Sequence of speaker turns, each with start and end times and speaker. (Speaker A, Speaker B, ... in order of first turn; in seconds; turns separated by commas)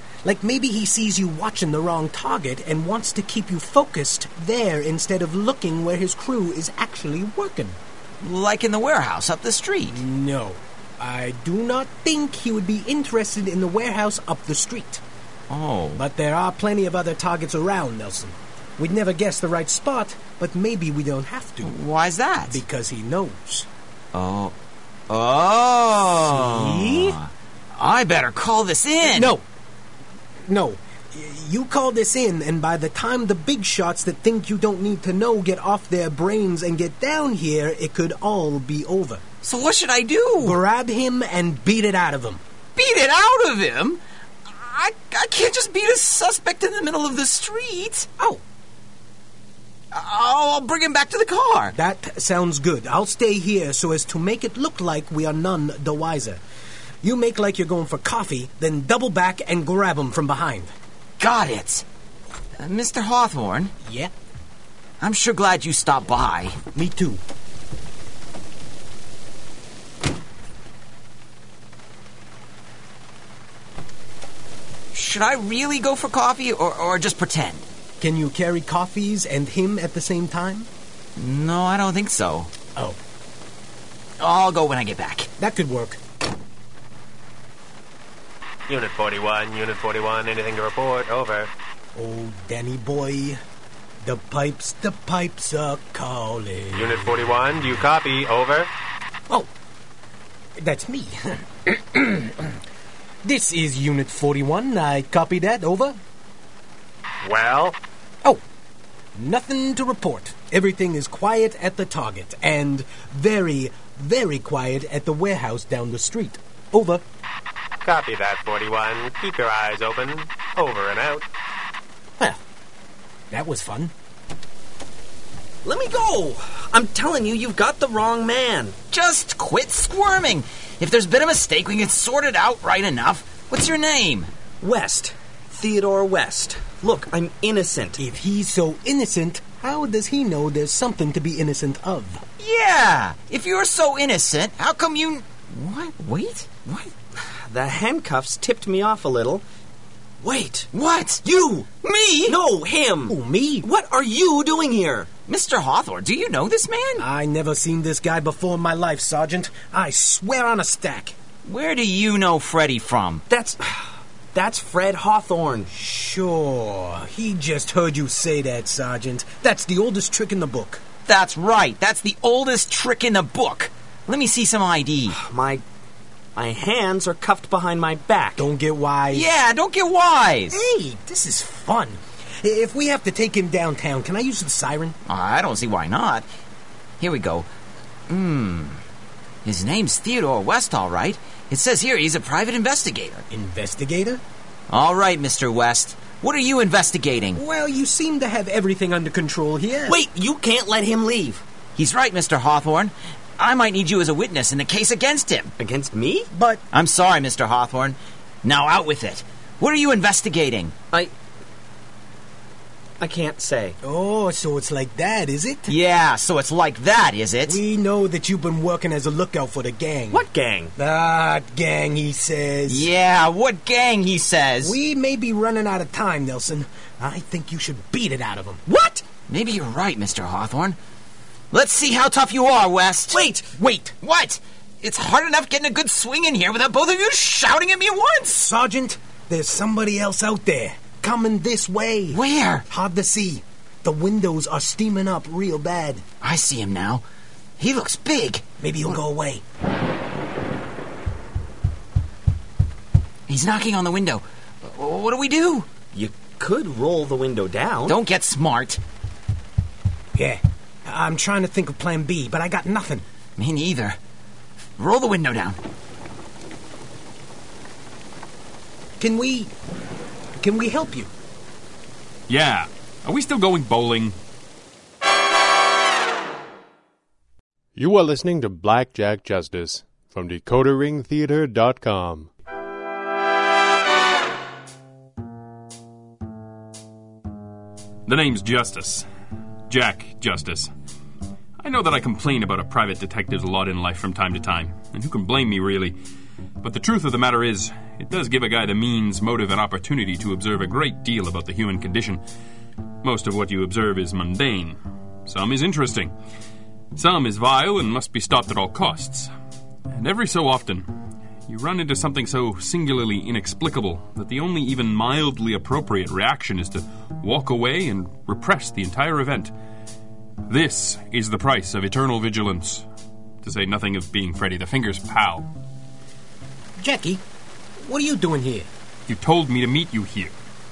Speaker A: 0.2-7.8, Speaker B: 8.2-10.0, Speaker A: 9.9-15.0, Speaker B: 15.5-16.0, Speaker A: 15.9-21.8, Speaker B: 21.6-22.6, Speaker A: 22.5-23.7, Speaker B: 24.1-24.6, Speaker B: 25.1-29.3, Speaker A: 26.2-27.2, Speaker A: 29.0-29.4, Speaker A: 30.5-39.2, Speaker B: 39.4-40.6, Speaker A: 40.4-42.4, Speaker B: 42.8-48.1, Speaker B: 49.9-51.7, Speaker A: 51.7-56.4, Speaker A: 57.0-60.7, Speaker B: 61.2-61.9, Speaker B: 62.6-63.7, Speaker A: 63.8-64.1, Speaker B: 65.0-66.6, Speaker A: 66.7-67.2, Speaker B: 74.9-77.7, Speaker A: 78.0-80.7, Speaker B: 81.2-82.5, Speaker B: 84.2-85.3, Speaker A: 85.4-86.0, Speaker C: 88.7-91.5, Speaker A: 92.0-93.4, Speaker A: 94.0-97.2, Speaker C: 96.7-98.7, Speaker A: 100.6-102.6, Speaker A: 103.2-106.0, Speaker C: 107.2-107.8, Speaker A: 109.2-117.0, Speaker C: 117.8-121.3, Speaker A: 123.3-123.9, Speaker D: 125.6-128.8, Speaker B: 128.9-134.3, Speaker D: 134.6-138.0, Speaker A: 138.0-142.2, Speaker B: 142.4-146.9, Speaker D: 147.3-149.4, Speaker D: 150.2-150.7, Speaker B: 150.7-151.2, Speaker D: 151.2-151.7, Speaker B: 151.8-152.4, Speaker D: 152.3-155.1, Speaker A: 153.1-153.7, Speaker B: 155.3-157.1, Speaker A: 157.0-161.2, Speaker B: 161.4-163.2, Speaker D: 163.3-165.7, Speaker A: 165.7-170.8, Speaker B: 171.1-175.2, Speaker D: 175.1-175.6, Speaker D: 176.4-178.5, Speaker A: 178.4-179.3, Speaker B: 179.1-180.6, Speaker A: 180.5-185.0, Speaker B: 185.1-186.3, Speaker B: 187.0-187.5, Speaker B: 188.1-188.8, Speaker B: 189.4-193.2, Speaker A: 193.3-194.2, Speaker B: 194.7-197.4, Speaker A: 197.3-200.0, Speaker D: 199.9-201.4, Speaker B: 201.8-205.5, Speaker D: 205.6-206.3, Speaker A: 206.3-206.6, Speaker B: 206.7-210.8, Speaker D: 213.0-213.8, Speaker A: 213.8-215.8, Speaker B: 215.7-217.6, Speaker A: 217.5-222.9, Speaker D: 220.1-220.7, Speaker B: 222.7-224.8, Speaker A: 224.6-228.6, Speaker D: 228.7-229.1, Speaker B: 229.3-230.8, Speaker B: 231.5-233.2, Speaker D: 233.1-233.5, Speaker A: 233.5-233.9, Speaker B: 234.0-238.4, Speaker A: 238.3-246.1, Speaker B: 242.1-242.7, Speaker B: 246.2-247.0, Speaker B: 247.6-248.5, Speaker A: 248.6-249.4, Speaker B: 253.3-255.7, Speaker D: 255.9-258.0, Speaker B: 257.9-258.8, Speaker A: 260.1-263.1, Speaker B: 263.4-264.0, Speaker B: 264.8-265.6, Speaker A: 269.0-269.5, Speaker A: 270.4-271.1, Speaker E: 272.3-274.2, Speaker F: 277.8-282.3, Speaker E: 288.1-289.1, Speaker E: 289.7-290.7, Speaker E: 291.6-296.0, Speaker E: 296.6-302.2, Speaker E: 303.0-306.1, Speaker E: 306.9-309.3, Speaker E: 309.9-310.9, Speaker E: 311.5-319.5, Speaker E: 320.5-322.9, Speaker E: 323.4-325.5, Speaker A: 326.8-327.2, Speaker A: 327.8-328.7, Speaker E: 329.1-330.3